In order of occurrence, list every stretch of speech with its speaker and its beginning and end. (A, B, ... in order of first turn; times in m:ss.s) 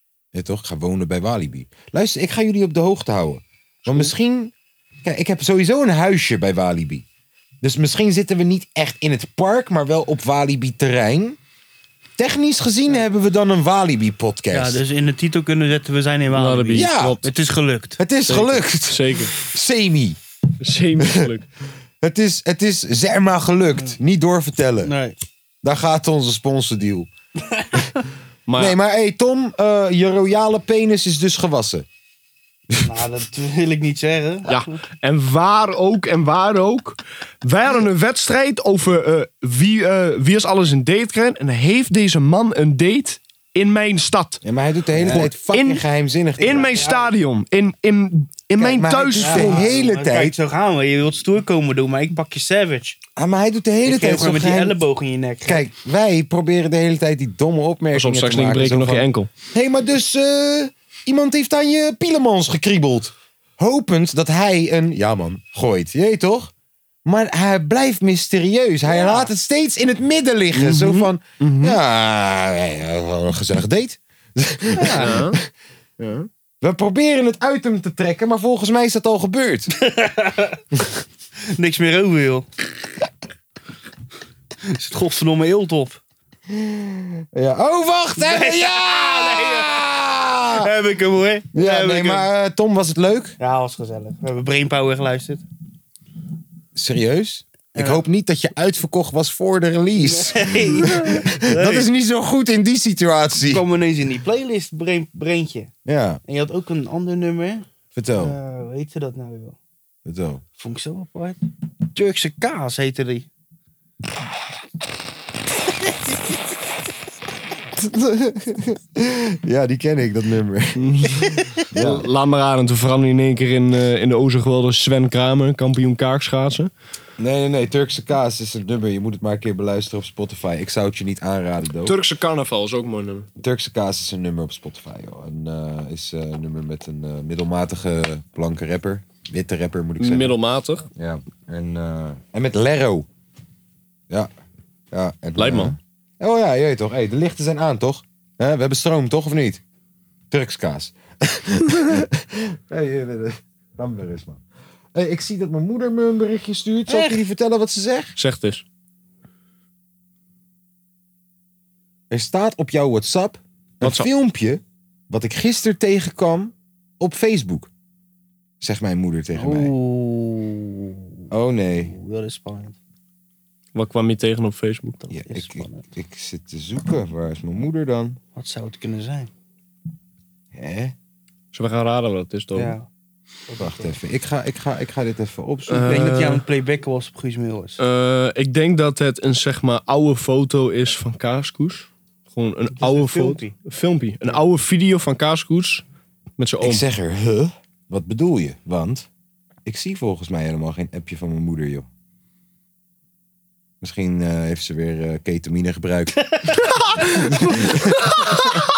0:00.3-0:04.5 A
0:05.0-0:07.0 A
0:07.6-0:11.4 A
0:12.2-0:14.8 A
0:14.5-0:18.0 B
0:16.3-0:17.2 C
0:16.7-0:17.2 A
0:18.0-0:20.2 A
0:18.3-0:19.4 C
0:20.6-0:21.4 C
0:21.0-0:21.3 A
0:22.0-0:24.9 A
0:24.8-0:25.2 B
0:25.6-0:27.1 A
0:28.5-0:28.8 C
0:28.6-0:31.8 A
0:32.8-0:34.8 B
0:34.5-0:44.4 C
0:44.4-0:46.8 A
0:45.0-0:45.8 C
0:46.4-0:49.6 C
0:46.5-0:47.1 B
0:48.6-0:50.3 A
0:49.2-0:53.0 B
0:53.2-0:54.8 A
0:53.8-0:55.6 B
0:55.4-1:06.5 A
0:57.9-0:59.3 C
1:07.0-1:15.4 A
1:08.9-1:09.3 B
1:10.5-1:11.8 C
1:14.8-1:15.1 B
1:15.0-1:15.4 C
1:16.0-1:16.3 C
1:16.6-1:19.7 A
1:19.8-1:20.6 B
1:20.7-1:21.0 A
1:21.5-1:22.4 B
1:24.6-1:26.0 B
1:26.5-1:30.7 A
1:28.2-1:29.9 B
1:30.6-1:32.3 B
1:31.5-1:33.4 A
1:33.4-1:35.4 B
1:36.7-1:43.6 A
1:37.7-1:38.0 B
1:40.0-1:41.9 B
1:43.5-1:45.7 B
1:45.8-1:46.2 A
1:46.3-1:49.6 B
1:47.9-1:48.4 A
1:50.0-1:50.4 A
1:50.6-1:51.4 B
1:51.9-1:53.3 B
1:57.8-2:02.1 A
2:00.8-2:06.7 C
2:07.2-2:12.0 A
2:11.8-2:13.3 C
2:13.4-2:20.4 A
2:20.0-2:20.8 C
2:21.0-2:23.1 A
2:24.9-2:29.6 A
2:25.4-2:25.7 C
2:30.3-2:34.4 A
2:34.9-2:38.2 A
2:38.2-2:38.6 C
2:42.1-2:47.7 A
2:43.8-2:44.1 C
2:48.6-2:49.7 A
2:49.4-2:51.1 B
2:51.3-2:51.9 A
2:51.8-2:52.8 B
2:53.7-2:55.1 C
2:55.1-2:55.8 B
2:55.1-2:58.2 A
2:58.3-2:59.3 B
3:00.5-3:00.9 A
3:01.5-3:02.7 C
3:02.5-3:02.9 B
3:03.5-3:03.9 B
3:03.6-3:06.0 A
3:05.7-3:06.4 C
3:05.8-3:07.8 B
3:07.8-3:15.8 C
3:12.8-3:13.5 B
3:16.4-3:16.8 C
3:16.6-3:19.1 A
3:19.6-3:21.9 A
3:23.8-3:28.6 A